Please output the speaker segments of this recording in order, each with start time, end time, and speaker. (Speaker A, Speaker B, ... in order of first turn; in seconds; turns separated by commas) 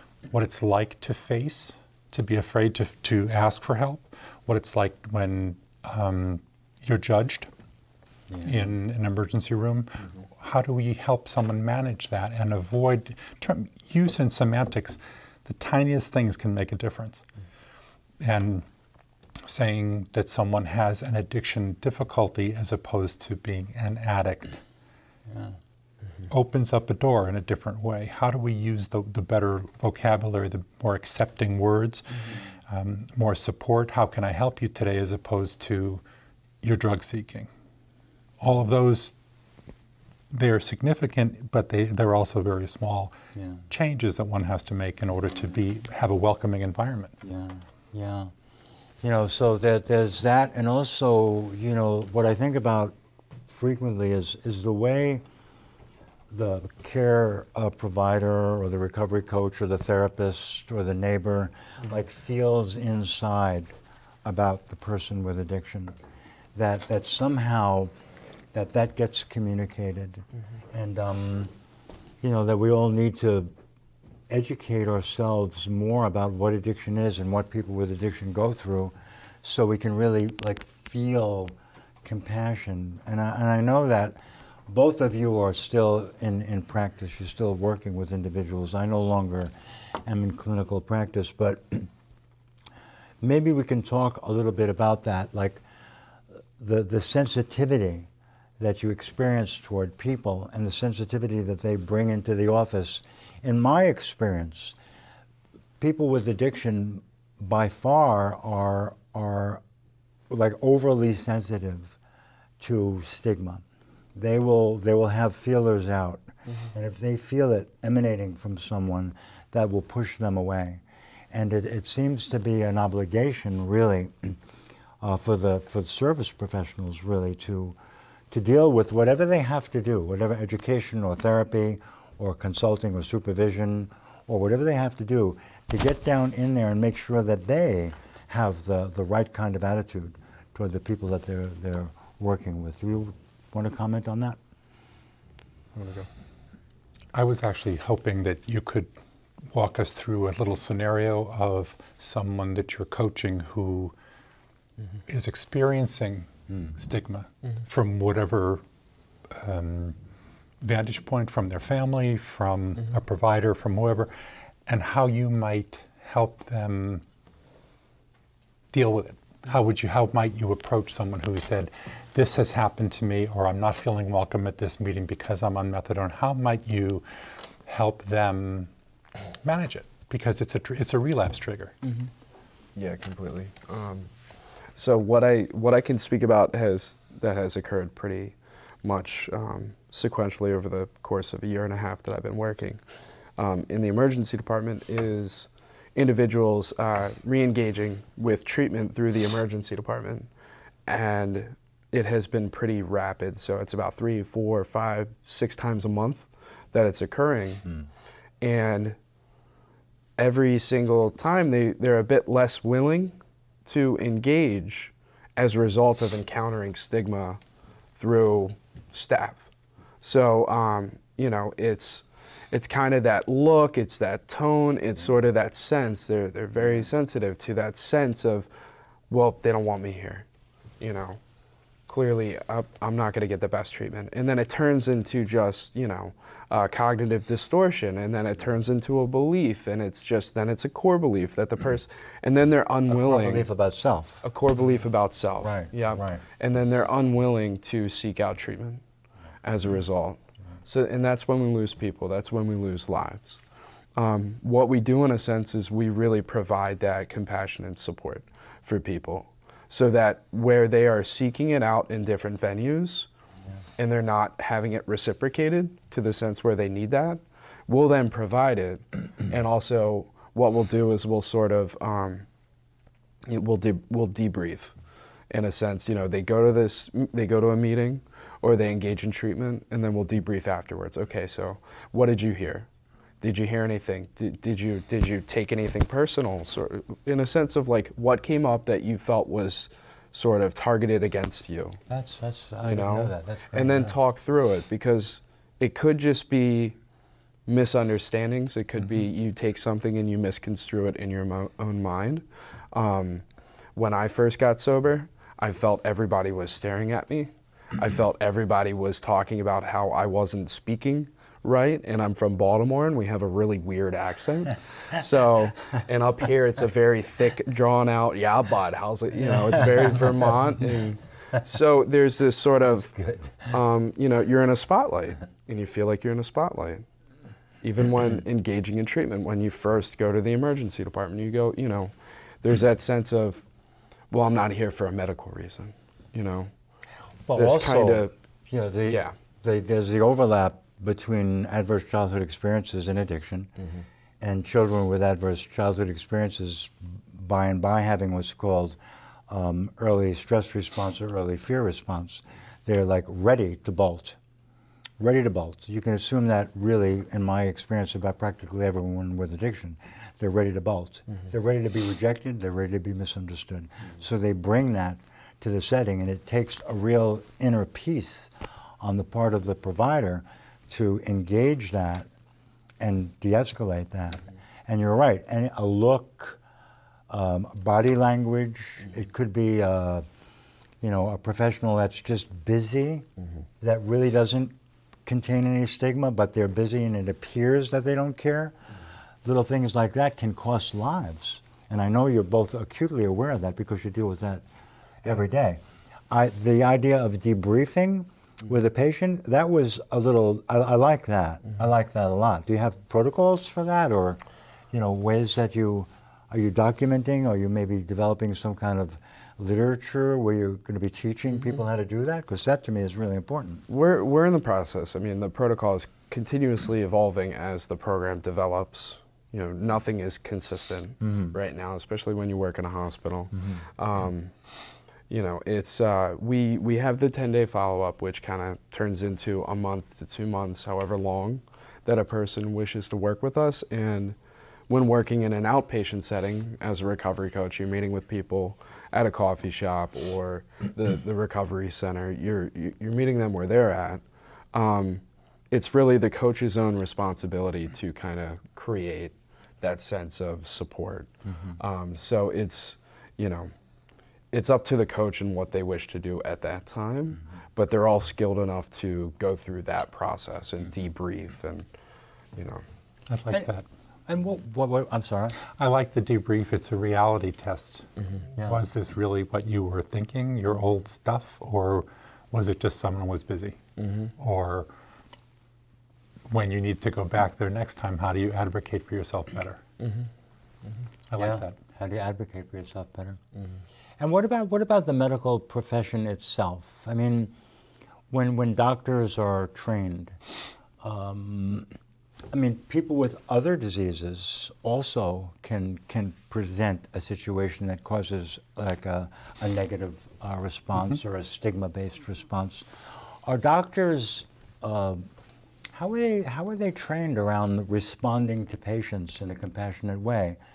Speaker A: 0.3-7.5, Speaker A: 8.4-17.2, Speaker A: 18.2-18.6, Speaker A: 19.4-24.6, Speaker A: 26.3-36.0, Speaker A: 36.6-37.5, Speaker A: 38.4-39.1, Speaker A: 40.3-43.1, Speaker B: 43.4-43.6, Speaker A: 43.7-47.1, Speaker B: 47.2-48.3, Speaker B: 49.0-55.2, Speaker B: 56.3-63.7, Speaker B: 64.2-65.9, Speaker B: 66.5-67.9, Speaker B: 68.5-71.5, Speaker B: 72.2-73.5, Speaker B: 74.3-89.5, Speaker B: 90.0-91.9, Speaker B: 93.2-95.6, Speaker B: 96.6-98.1, Speaker B: 98.6-104.7, Speaker B: 105.8-109.6, Speaker B: 110.3-112.0, Speaker B: 112.6-113.6, Speaker B: 114.2-120.8, Speaker B: 121.3-124.4, Speaker B: 125.0-127.8, Speaker B: 128.3-144.4, Speaker C: 145.8-146.1, Speaker A: 147.1-148.9, Speaker A: 149.5-153.9, Speaker A: 155.1-158.6, Speaker A: 159.3-159.9, Speaker A: 160.6-164.1, Speaker A: 164.7-167.0, Speaker A: 168.7-177.1, Speaker A: 177.6-178.7, Speaker A: 179.4-181.8, Speaker C: 181.8-182.1, Speaker C: 182.8-184.1, Speaker C: 184.8-192.8, Speaker C: 193.4-200.3, Speaker C: 200.9-207.6, Speaker C: 208.4-209.0, Speaker C: 210.2-217.4, Speaker C: 217.9-219.5, Speaker C: 220.0-228.5, Speaker C: 229.1-230.2, Speaker C: 230.8-231.2, Speaker C: 231.9-243.5, Speaker B: 242.9-244.2, Speaker C: 244.2-248.8, Speaker B: 245.4-246.2, Speaker C: 249.4-253.4, Speaker C: 254.0-263.1, Speaker C: 263.8-272.2, Speaker C: 273.2-274.7, Speaker C: 275.3-282.7, Speaker C: 283.2-291.8, Speaker B: 291.9-293.9, Speaker C: 292.7-296.8, Speaker C: 297.5-303.2, Speaker C: 303.8-322.9, Speaker B: 322.9-323.5, Speaker C: 323.4-326.8, Speaker C: 327.6-333.4, Speaker C: 334.1-336.5, Speaker B: 337.3-343.5, Speaker C: 337.4-338.1, Speaker C: 338.9-339.1, Speaker B: 344.2-348.8, Speaker B: 349.3-354.2, Speaker B: 355.0-372.1, Speaker B: 372.8-376.4, Speaker B: 377.1-380.1, Speaker B: 380.8-383.1, Speaker B: 383.6-384.5, Speaker B: 385.1-388.5, Speaker B: 389.2-394.4, Speaker B: 395.0-404.2, Speaker B: 404.7-413.6, Speaker C: 413.7-424.3, Speaker B: 421.0-421.3, Speaker B: 423.4-423.6, Speaker C: 425.1-434.1, Speaker C: 434.7-444.0, Speaker C: 444.5-453.5, Speaker C: 454.3-461.7, Speaker C: 462.4-462.6, Speaker A: 463.1-463.6, Speaker B: 464.1-465.4, Speaker A: 465.4-467.9, Speaker A: 468.4-473.6, Speaker A: 474.2-474.7, Speaker A: 476.3-479.6, Speaker C: 479.8-480.1, Speaker A: 481.1-481.5, Speaker B: 481.1-483.2, Speaker B: 484.0-487.3, Speaker B: 488.1-490.1, Speaker B: 490.8-491.7, Speaker B: 492.3-502.7, Speaker B: 503.2-505.1, Speaker B: 505.7-510.4